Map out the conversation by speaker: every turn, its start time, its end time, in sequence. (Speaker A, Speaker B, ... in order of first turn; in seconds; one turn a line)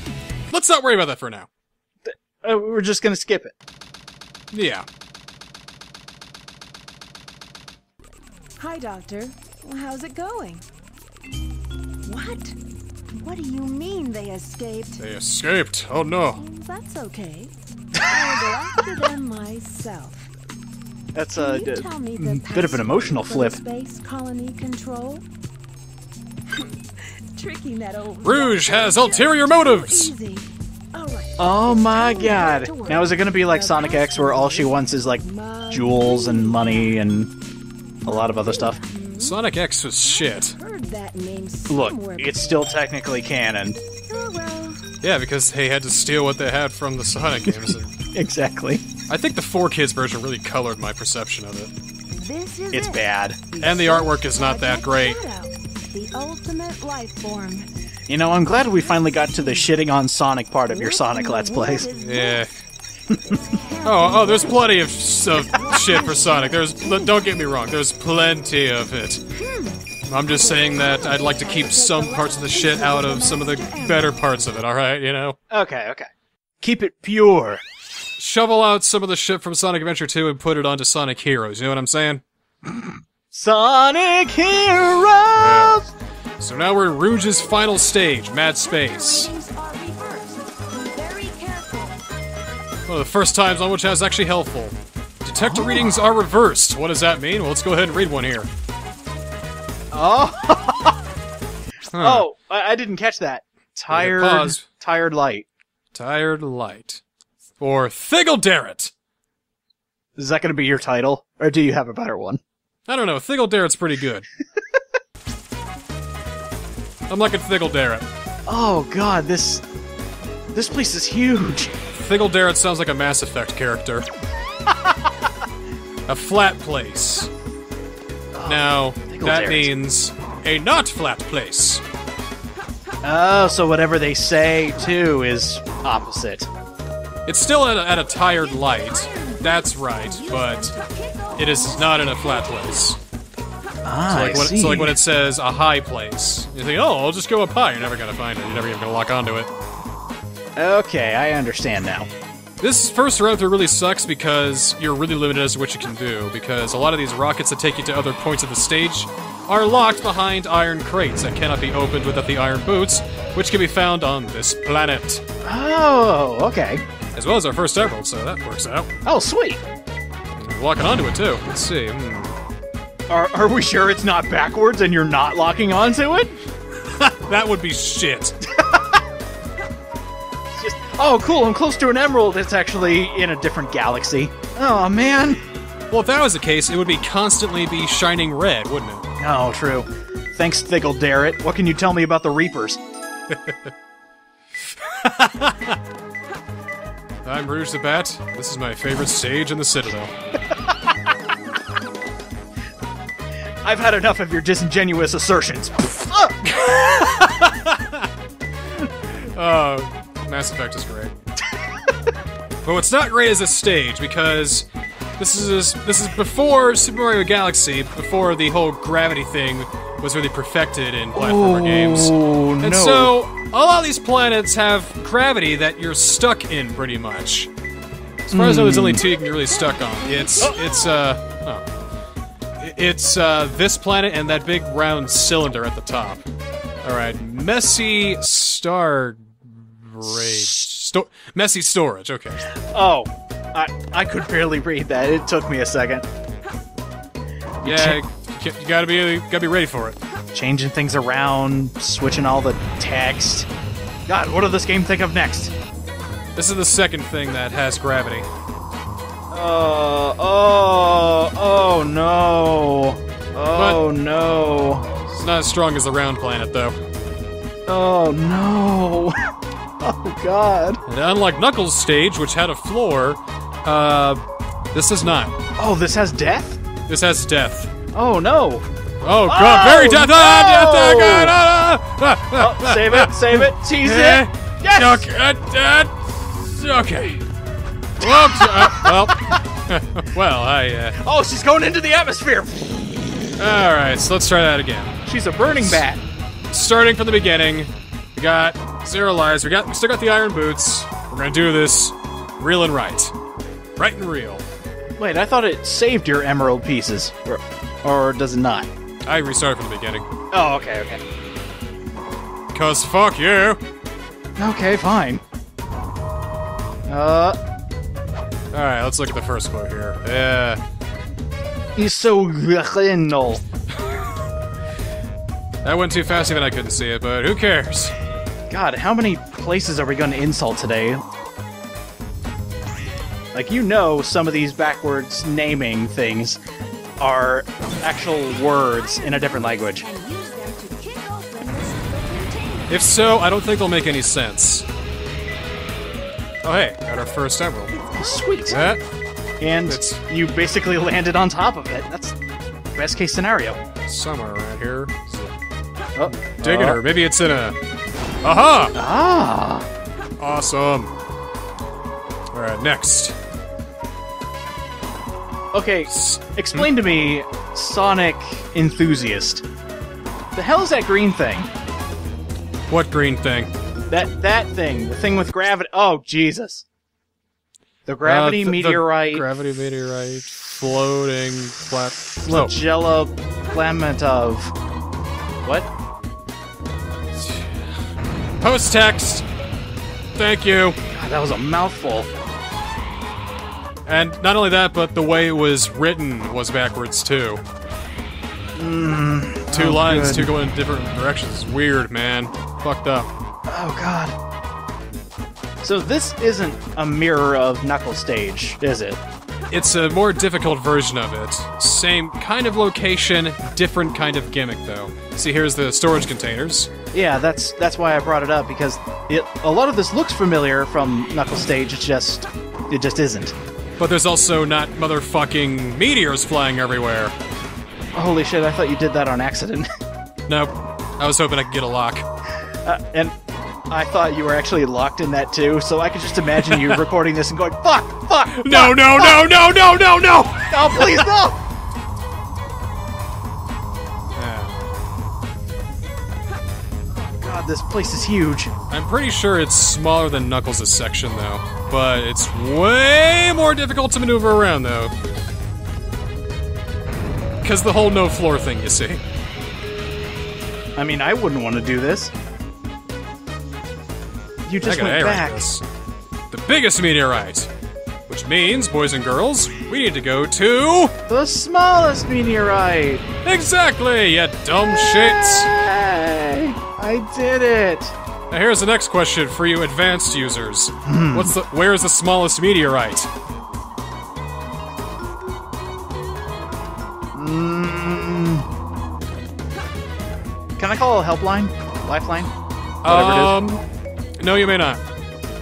Speaker A: 0.5-1.5
Speaker B: 2.0-3.5
Speaker A: 4.5-4.9
Speaker C: 8.6-10.7
Speaker C: 12.1-12.6
Speaker C: 13.1-15.0
Speaker A: 15.0-16.4
Speaker C: 16.4-20.3
Speaker B: 18.0-18.5
Speaker B: 21.1-23.6
Speaker C: 21.3-25.2
Speaker C: 26.6-37.0
Speaker A: 28.2-30.1
Speaker B: 31.4-37.3
Speaker B: 38.1-38.8
Speaker C: 38.2-39.4
Speaker A: 39.2-40.6
Speaker C: 40.0-42.8
Speaker B: 41.7-43.8
Speaker C: 44.1-44.8
Speaker A: 45.0-47.9
Speaker B: 47.5-48.8
Speaker A: 49.1-51.7
Speaker C: 52.1-57.7
Speaker B: 52.7-53.4
Speaker A: 53.6-55.2
Speaker B: 58.1-61.9
Speaker C: 59.0-59.6
Speaker C: 60.7-62.5
Speaker A: 62.0-62.5
Speaker C: 63.1-67.2
Speaker A: 63.8-69.2
Speaker C: 69.3-69.8
Speaker A: 70.1-75.4
Speaker C: 70.3-74.2
Speaker B: 75.5-76.1
Speaker B: 76.6-77.6
Speaker A: 78.2-82.2
Speaker B: 82.7-85.9
Speaker A: 85.3-85.8
Speaker A: 86.4-89.3
Speaker C: 88.6-92.0
Speaker A: 92.9-98.5
Speaker B: 95.3-95.9
Speaker B: 99.9-101.0
Speaker A: 101.9-102.2
Speaker B: 102.0-105.5
Speaker A: 103.9-104.7
Speaker A: 105.9-107.0
Speaker A: 107.6-108.9
Speaker B: 110.2-112.4
Speaker A: 112.9-114.3
Speaker A: 117.1-118.1
Speaker B: 118.5-119.6
Speaker B: 120.5-121.7
Speaker A: 121.9-124.1
Speaker A: 126.1-127.3
Speaker B: 128.3-129.7
Speaker A: 128.4-131.8
Speaker B: 133.0-136.5
Speaker A: 137.3-140.7
Speaker C: 138.2-143.0
Speaker A: 141.4-143.0
Speaker B: 143.8-145.0
Speaker A: 144.1-149.5
Speaker B: 150.6-152.1
Speaker A: 152.6-165.2
Speaker B: 165.4-166.8
Speaker A: 167.2-168.9
Speaker B: 169.1-169.6
Speaker A: 170.4-172.3
Speaker B: 173.1-176.4
Speaker A: 176.9-178.4
Speaker B: 178.5-178.9
Speaker B: 180.6-185.4
Speaker A: 185.9-189.1
Speaker B: 189.2-192.8
Speaker A: 193.3-193.7
Speaker A: 194.7-195.8
Speaker A: 197.2-200.1
Speaker B: 203.6-206.5
Speaker A: 206.4-208.1
Speaker A: 209.3-211.1
Speaker A: 212.6-214.7
Speaker A: 215.2-227.5
Speaker B: 221.1-223.2
Speaker A: 228.3-231.6
Speaker B: 228.3-229.0
Speaker C: 229.4-230.9
Speaker A: 232.6-236.2
Speaker A: 236.8-242.5
Speaker B: 240.1-240.7
Speaker B: 242.6-246.1
Speaker B: 247.6-248.0
Speaker A: 247.7-250.0
Speaker B: 250.3-253.5
Speaker B: 254.1-255.5
Speaker A: 256.4-258.3
Speaker B: 259.3-264.9
Speaker A: 263.5-263.8
Speaker A: 265.1-266.8
Speaker B: 267.7-269.2
Speaker B: 269.8-270.8
Speaker A: 270.9-274.2
Speaker A: 274.7-275.3
Speaker B: 275.6-276.6
Speaker A: 276.9-277.7
Speaker B: 277.9-278.7
Speaker A: 279.0-287.2
Speaker B: 279.3-281.4
Speaker B: 282.4-285.1
Speaker B: 288.0-289.3
Speaker A: 288.0-291.0
Speaker B: 291.0-292.6
Speaker A: 293.4-295.8
Speaker B: 295.1-296.0
Speaker A: 296.5-303.1
Speaker A: 303.8-304.4
Speaker B: 305.0-308.7
Speaker A: 309.1-310.1
Speaker B: 310.3-311.0
Speaker A: 312.5-313.6
Speaker B: 314.4-315.2
Speaker B: 316.9-317.4
Speaker A: 318.5-320.6
Speaker B: 321.8-323.4
Speaker A: 323.8-324.1
Speaker A: 325.6-327.9
Speaker B: 328.5-331.0
Speaker B: 333.3-336.4
Speaker B: 337.0-339.9
Speaker C: 339.2-343.0
Speaker A: 342.7-344.7
Speaker A: 346.4-347.7
Speaker B: 347.9-348.6
Speaker A: 348.5-348.8
Speaker B: 349.4-352.2
Speaker A: 349.7-350.0
Speaker B: 352.8-353.6
Speaker A: 353.9-355.4
Speaker B: 356.0-356.8
Speaker A: 356.2-357.6
Speaker A: 358.2-358.7
Speaker B: 358.7-359.7
Speaker A: 360.2-360.9
Speaker A: 362.3-363.2
Speaker B: 365.5-369.4
Speaker A: 365.9-366.7
Speaker B: 370.3-371.5
Speaker A: 372.7-373.5
Speaker B: 373.9-376.6
Speaker B: 377.9-379.2
Speaker A: 378.0-382.5
Speaker B: 382.2-384.5
Speaker A: 387.1-387.7
Speaker A: 388.4-389.3
Speaker A: 390.1-390.8
Speaker B: 390.9-392.1
Speaker A: 393.9-397.4
Speaker B: 398.6-400.3
Speaker A: 399.5-403.1
Speaker B: 403.5-404.2
Speaker B: 405.6-409.0
Speaker A: 409.5-416.7
Speaker B: 416.9-423.4
Speaker A: 423.8-427.1
Speaker B: 427.9-429.7
Speaker A: 430.3-432.1
Speaker B: 432.6-433.2
Speaker B: 433.7-439.3
Speaker A: 436.4-436.8
Speaker A: 438.3-441.1
Speaker B: 440.5-441.4
Speaker A: 444.2-444.7
Speaker B: 446.9-448.5
Speaker A: 448.7-454.9
Speaker A: 457.4-459.0
Speaker B: 460.8-462.1
Speaker B: 464.5-465.5
Speaker A: 464.6-465.6
Speaker A: 466.3-467.5
Speaker A: 468.1-470.9
Speaker B: 471.1-473.1
Speaker A: 473.2-475.5
Speaker B: 474.7-477.9
Speaker A: 478.3-483.1
Speaker B: 480.9-481.4
Speaker B: 487.1-488.5
Speaker B: 490.6-492.3
Speaker A: 492.8-493.6
Speaker B: 492.9-493.4
Speaker A: 494.2-494.8